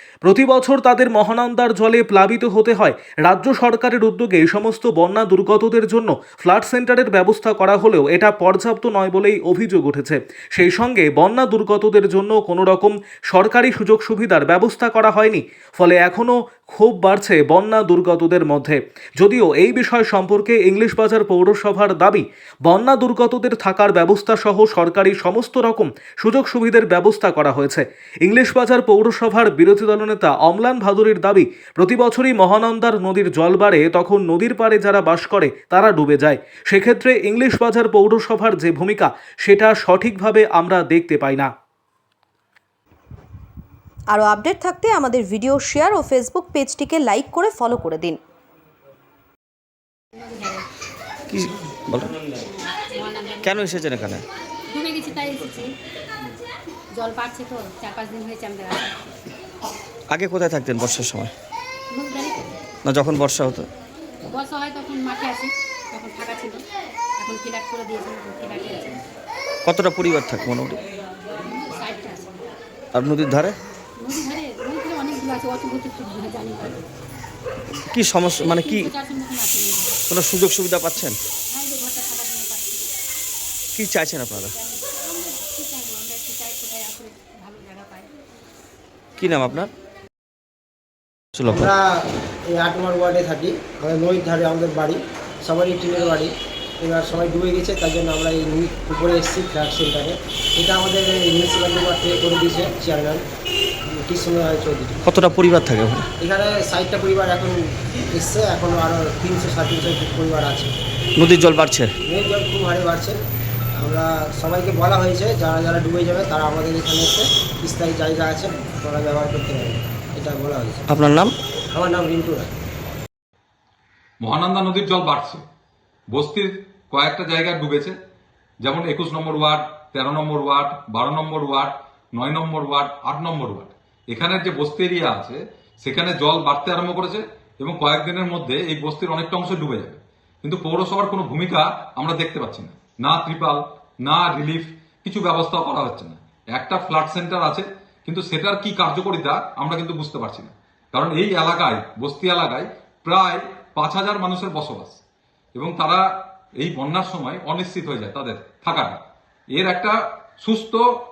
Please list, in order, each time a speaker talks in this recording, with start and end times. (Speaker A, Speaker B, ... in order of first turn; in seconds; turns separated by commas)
Speaker A: 0.2-41.5, Speaker B: 44.1-48.2, Speaker C: 50.1-50.6, Speaker D: 51.3-52.2, Speaker C: 52.5-53.8, Speaker D: 53.4-54.2, Speaker C: 54.7-55.7, Speaker C: 57.0-59.0, Speaker D: 60.1-61.3, Speaker C: 61.9-62.6, Speaker D: 62.8-63.7, Speaker C: 64.2-66.6, Speaker C: 67.2-69.0, Speaker D: 69.6-70.8, Speaker C: 71.4-72.4, Speaker D: 72.9-73.6, Speaker C: 74.0-76.8, Speaker D: 77.9-78.9, Speaker C: 78.5-80.0, Speaker D: 80.1-81.2, Speaker C: 81.5-82.8, Speaker D: 83.7-84.5, Speaker C: 84.7-88.1, Speaker D: 89.2-89.7, Speaker D: 91.3-91.7, Speaker E: 91.5-103.2, Speaker E: 103.9-105.0, Speaker D: 105.0-106.0, Speaker E: 106.2-107.6, Speaker E: 108.1-110.7, Speaker D: 111.2-111.9, Speaker E: 112.0-113.2, Speaker E: 113.8-120.8, Speaker D: 120.9-121.3, Speaker E: 121.7-122.5, Speaker F: 124.2-125.4, Speaker F: 126.1-128.0, Speaker F: 128.6-155.0, Speaker F: 155.5-156.0, Speaker F: 156.6-159.0, Speaker F: 159.5-160.8